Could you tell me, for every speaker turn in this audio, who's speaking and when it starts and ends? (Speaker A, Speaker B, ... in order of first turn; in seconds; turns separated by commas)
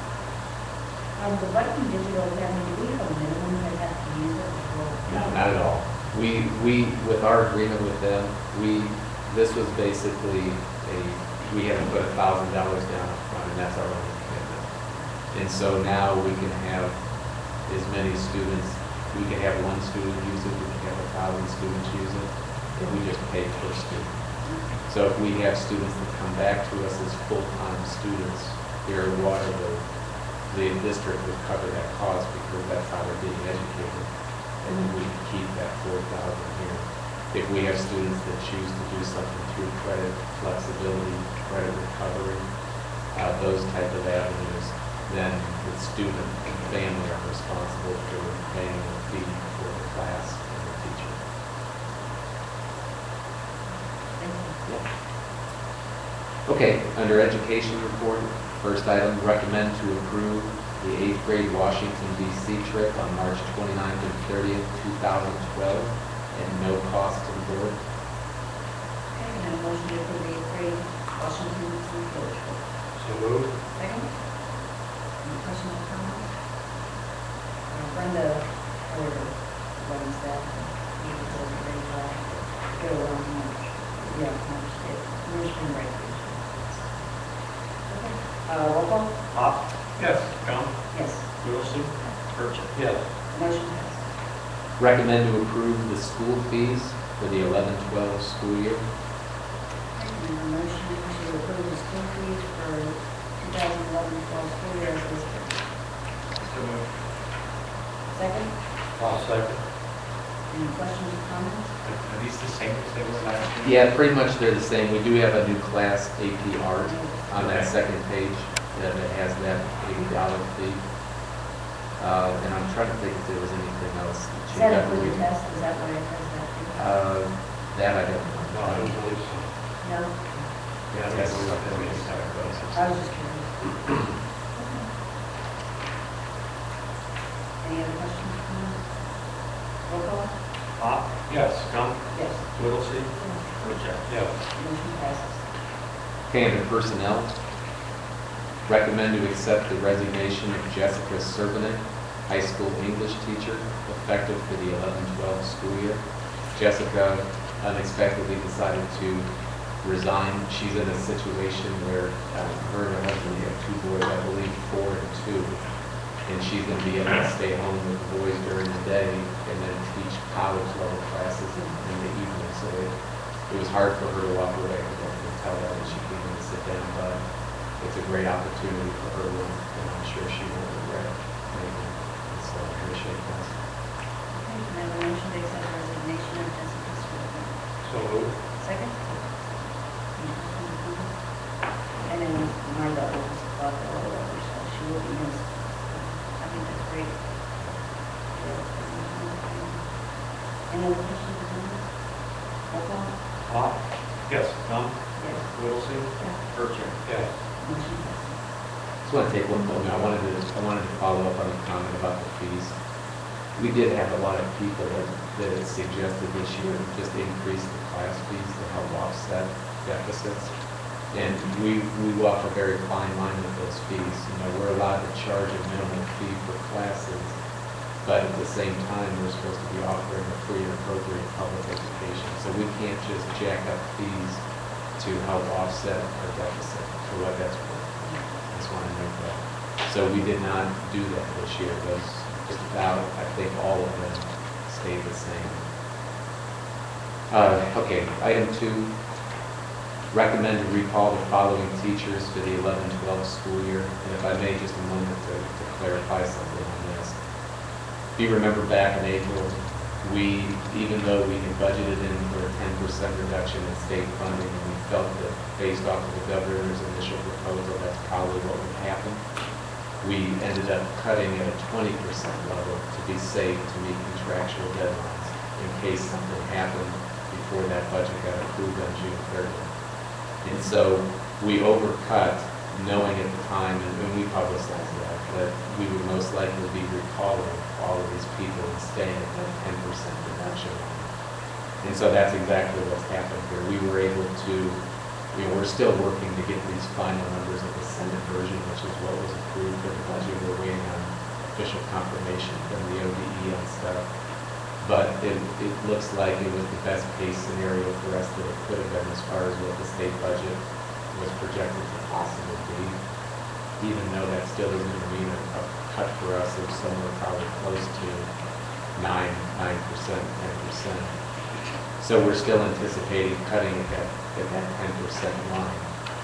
Speaker A: 1.1-5.1, Speaker B: 5.0-29.9, Speaker A: 24.4-24.7, Speaker B: 30.4-42.5, Speaker B: 43.0-51.2, Speaker B: 56.4-67.8, Speaker A: 69.1-72.6, Speaker C: 73.0-73.6, Speaker A: 73.7-74.1, Speaker A: 75.2-76.3, Speaker A: 77.7-87.0, Speaker A: 87.8-89.2, Speaker D: 89.3-89.6, Speaker E: 90.0-90.3, Speaker D: 90.3-92.8, Speaker A: 90.9-91.3, Speaker C: 92.7-93.1, Speaker A: 93.3-94.1, Speaker B: 94.8-98.8, Speaker A: 99.9-105.6, Speaker E: 106.3-106.9, Speaker A: 108.1-108.5, Speaker C: 109.0-109.6, Speaker A: 110.5-111.7, Speaker E: 111.8-113.8, Speaker B: 113.6-120.8, Speaker A: 116.8-117.2, Speaker E: 117.3-117.7, Speaker B: 122.0-125.2, Speaker A: 124.5-126.9, Speaker B: 126.7-128.9, Speaker C: 128.5-129.5, Speaker A: 129.8-130.5, Speaker B: 130.9-133.1, Speaker C: 130.9-132.6, Speaker A: 132.7-133.6, Speaker A: 134.5-134.9, Speaker A: 137.6-138.9, Speaker A: 139.8-140.3, Speaker D: 140.8-144.1, Speaker A: 142.1-142.4, Speaker C: 144.1-144.3, Speaker A: 144.5-145.4, Speaker B: 146.3-147.4, Speaker B: 148.7-165.7, Speaker B: 166.2-183.5, Speaker A: 184.3-187.6, Speaker C: 187.8-188.4, Speaker A: 188.6-189.2, Speaker A: 190.1-191.3, Speaker A: 192.0-197.2, Speaker A: 198.3-202.1, Speaker A: 202.7-203.1, Speaker D: 203.5-203.8, Speaker D: 204.6-207.0, Speaker A: 205.2-205.5, Speaker C: 207.0-207.3, Speaker A: 207.6-208.4, Speaker B: 209.0-212.8, Speaker B: 213.5-227.4, Speaker B: 227.9-245.7, Speaker A: 238.0-238.3, Speaker B: 247.3-248.9, Speaker B: 250.1-257.2, Speaker B: 258.1-269.2, Speaker B: 270.0-279.7, Speaker B: 280.4-291.1, Speaker B: 291.8-304.1, Speaker B: 304.7-313.0, Speaker B: 313.8-318.3, Speaker B: 318.9-321.1, Speaker B: 322.0-325.9